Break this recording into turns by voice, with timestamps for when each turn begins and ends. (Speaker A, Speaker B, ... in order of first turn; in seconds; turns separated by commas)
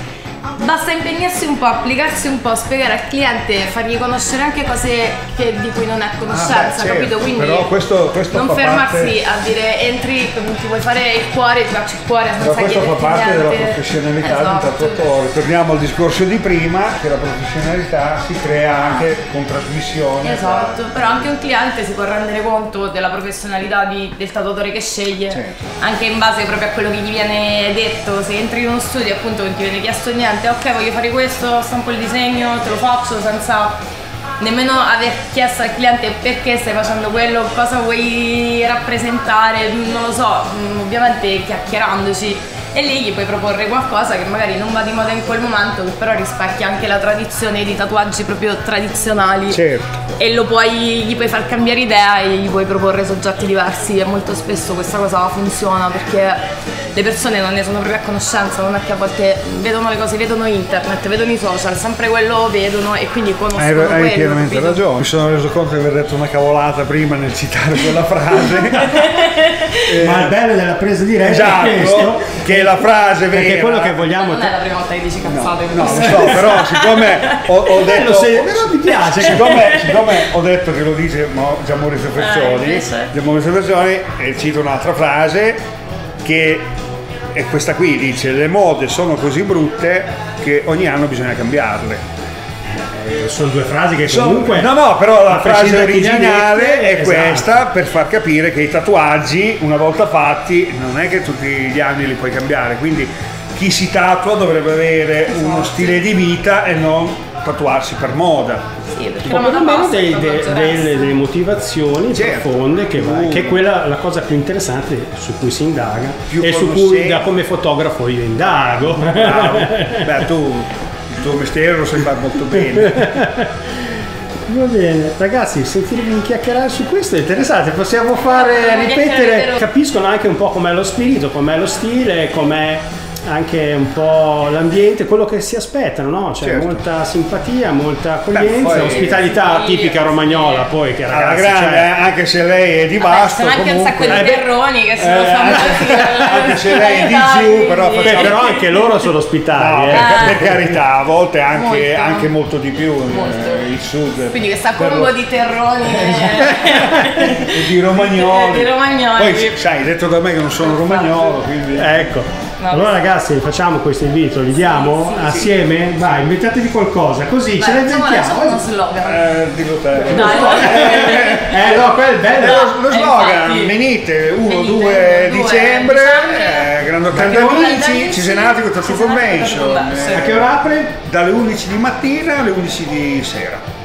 Speaker A: 0.6-7.7, Speaker B: 6.3-9.2, Speaker A: 8.3-15.1, Speaker B: 12.4-21.2, Speaker A: 20.2-33.8, Speaker B: 25.3-25.6, Speaker A: 34.4-49.6, Speaker B: 49.5-49.9, Speaker A: 50.2-56.4, Speaker A: 56.9-64.8, Speaker B: 63.5-69.1, Speaker A: 68.6-69.7, Speaker B: 69.9-70.3, Speaker C: 70.0-74.5, Speaker B: 71.2-74.0, Speaker A: 74.1-77.5, Speaker B: 75.2-85.6, Speaker C: 75.8-76.4, Speaker C: 77.7-79.9, Speaker A: 79.6-80.1, Speaker A: 82.2-83.1, Speaker B: 86.2-86.7, Speaker B: 87.3-92.0, Speaker C: 92.8-94.7, Speaker B: 94.0-108.7, Speaker C: 95.2-97.6, Speaker A: 105.3-106.1, Speaker A: 108.9-111.1, Speaker C: 109.2-120.2, Speaker B: 112.1-113.7, Speaker B: 116.3-117.2, Speaker B: 118.8-123.1, Speaker C: 122.7-123.5, Speaker C: 124.5-141.9, Speaker A: 128.3-129.6, Speaker B: 136.4-136.8, Speaker B: 138.3-139.3, Speaker A: 138.7-140.7, Speaker B: 141.1-144.4, Speaker A: 143.0-148.9, Speaker C: 144.1-144.4, Speaker B: 145.0-148.4, Speaker C: 148.0-150.7, Speaker B: 149.5-155.2, Speaker A: 149.9-150.4, Speaker A: 151.5-153.7, Speaker A: 154.2-159.6, Speaker B: 155.9-162.1, Speaker A: 160.6-161.4, Speaker C: 161.7-168.6, Speaker A: 162.6-163.1, Speaker A: 164.5-165.5, Speaker A: 167.6-169.3, Speaker B: 169.0-183.6, Speaker C: 170.0-172.6, Speaker A: 170.0-173.8, Speaker A: 174.4-180.3, Speaker C: 177.1-177.7, Speaker C: 180.1-180.9